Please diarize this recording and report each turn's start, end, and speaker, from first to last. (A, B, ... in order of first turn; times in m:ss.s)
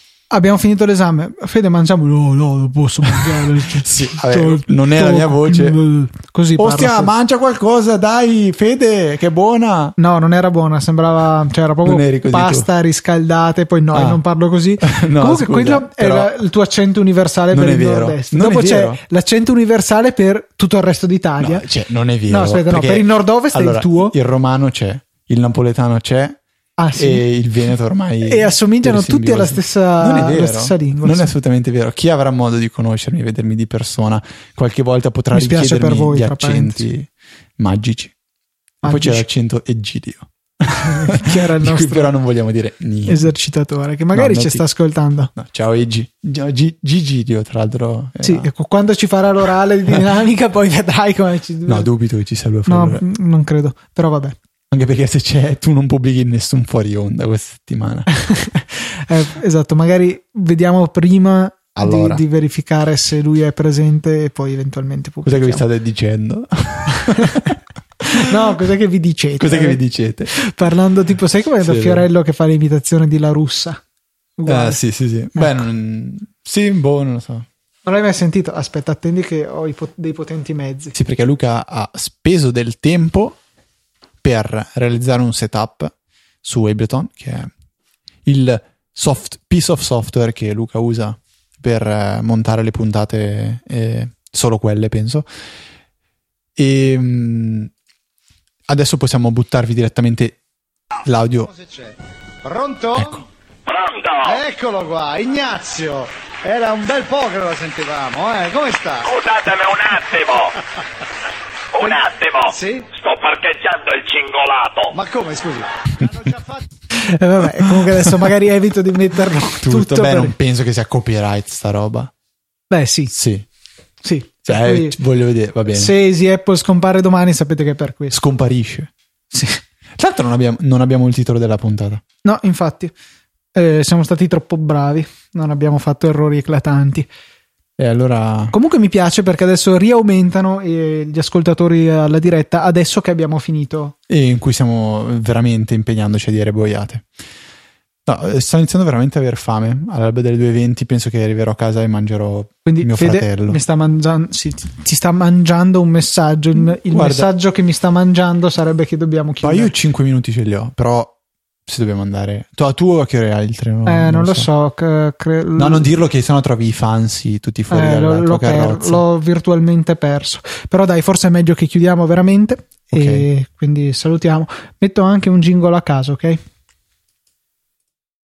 0:00.3-0:07.1 A
0:03.4-0:05.8 B
0:06.6-0:10.0 B
0:10.0-0:21.6 A
0:11.8-0:12.7 B
0:13.9-0:14.2 B
0:14.8-0:16.3 B
0:17.5-0:19.0 B
0:21.4-0:26.4 B
0:22.3-0:24.1 A
0:26.8-0:27.2 A
0:26.9-0:38.1 B
0:28.2-0:31.3 A
0:35.3-0:36.8 A
0:38.8-0:39.3 A
0:38.8-0:43.3 B
0:40.8-0:42.1 A
0:43.0-0:45.3 A
0:44.1-0:44.6 B
0:45.3-0:48.5 B
0:48.2-0:51.9 A
0:51.7-0:53.0 B
0:52.7-0:54.4 A
0:54.7-0:58.1 B
0:58.2-1:05.6 A
1:01.8-1:02.2 B
1:05.2-1:08.2 B
1:07.0-1:07.5 A
1:08.1-1:09.8 A
1:09.4-1:10.3 B
1:10.3-1:13.8 A
1:11.6-1:12.0 B
1:14.4-1:14.8 A
1:14.5-1:17.4 B
1:15.3-1:15.6 A
1:17.8-1:20.9 A
1:20.9-1:23.4 B
1:24.2-1:27.5 B
1:28.2-1:35.3 B
1:36.6-1:37.7 B
1:38.7-1:40.4 B
1:41.0-1:41.5 B
1:41.5-1:43.2 C
1:43.0-1:43.2 B
1:43.7-1:44.4 D
1:44.2-1:49.1 C
1:49.0-1:50.6 D
1:51.7-1:54.9 D
1:52.6-1:52.9 C
1:54.9-1:56.4 C
1:56.9-2:00.3 A
1:59.6-2:02.1 B
2:02.7-2:03.1 A
2:03.1-2:03.5 B
2:04.0-2:05.0 A
2:04.5-2:05.9 B
2:05.7-2:08.1 A
2:08.1-2:08.9 B
2:09.3-2:09.6 A
2:10.0-2:12.0 B
2:12.2-2:12.9 A
2:13.5-2:17.1 A
2:17.8-2:18.5 B
2:18.5-2:23.9 A
2:24.1-2:27.0 B
2:28.0-2:33.6 B
2:32.6-2:39.7 A
2:36.8-2:37.3 B
2:39.4-2:41.1 B
2:41.7-2:44.5 B
2:43.8-2:45.9 A
2:45.6-2:49.0 B
2:47.7-2:56.4 A
2:52.9-2:53.3 B